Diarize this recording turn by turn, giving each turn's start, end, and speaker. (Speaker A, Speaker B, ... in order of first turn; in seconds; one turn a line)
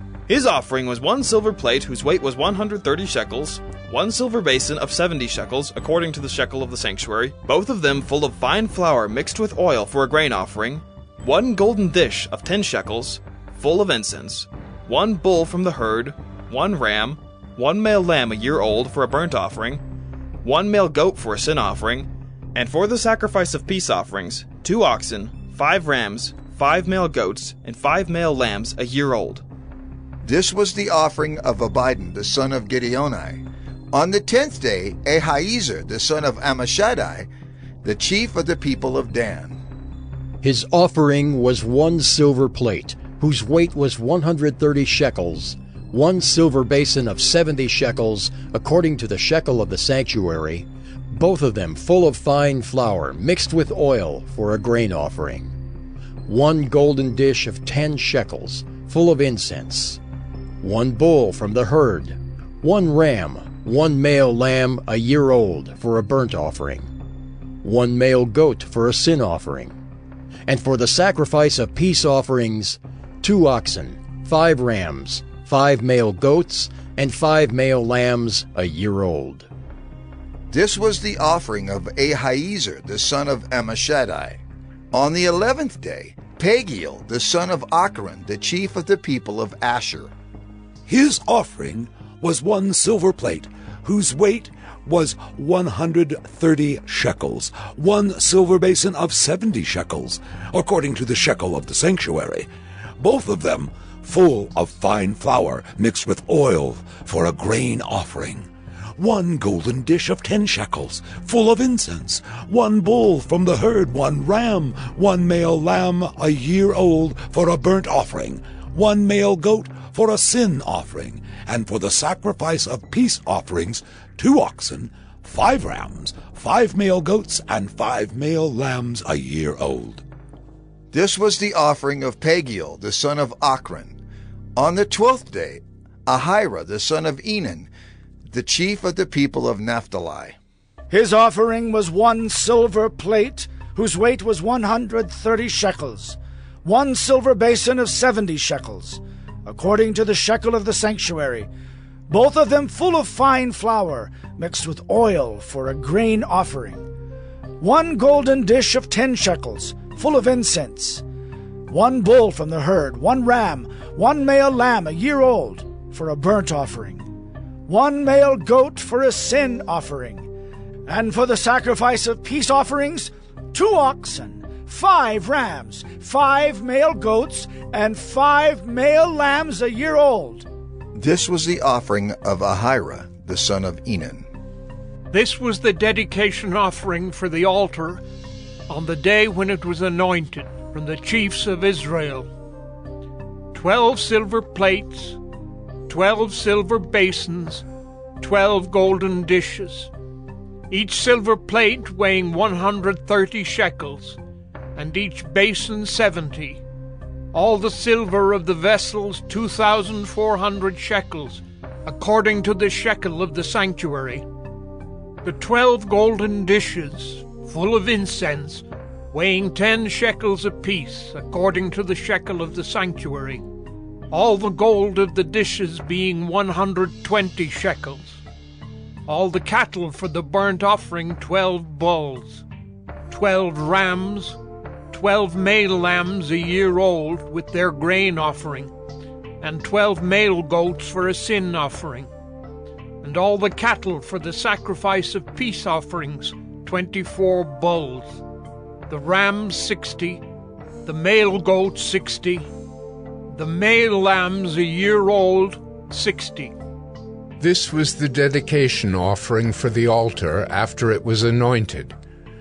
Speaker A: 0.3-19.8
Speaker A: 20.4-29.4
Speaker B: 30.2-37.3
Speaker B: 37.8-39.6
Speaker C: 40.4-55.5
Speaker C: 56.3-60.0
Speaker C: 60.6-66.9
Speaker C: 67.6-69.7
Speaker C: 70.5-79.5
Speaker B: 80.5-84.4
Speaker B: 84.9-90.1
Speaker D: 90.9-102.5
Speaker D: 103.0-130.0
Speaker B: 130.9-133.9
Speaker B: 134.6-137.7
Speaker B: 138.3-140.3
Speaker E: 140.9-151.5
Speaker E: 152.1-156.9
Speaker E: 157.6-161.0
Speaker E: 161.7-167.1
Speaker E: 167.7-170.3
Speaker E: 170.8-180.5
Speaker B: 180.9-184.2
Speaker F: 185.1-188.0
Speaker F: 188.7-192.3
Speaker F: 193.5-195.2
Speaker F: 195.9-197.6
Speaker F: 198.2-199.9
Speaker F: 200.7-204.2
Speaker F: 204.8-206.6
Speaker F: 207.3-214.2
Speaker F: 215.2-223.4
Speaker F: 224.1-228.2
Speaker F: 229.1-232.4
Speaker F: 233.1-238.7
Speaker F: 239.4-242.1
Speaker F: 243.0-248.2
Speaker F: 248.9-250.2
Speaker F: 250.8-252.5
Speaker F: 253.3-256.6
Speaker G: 257.4-261.9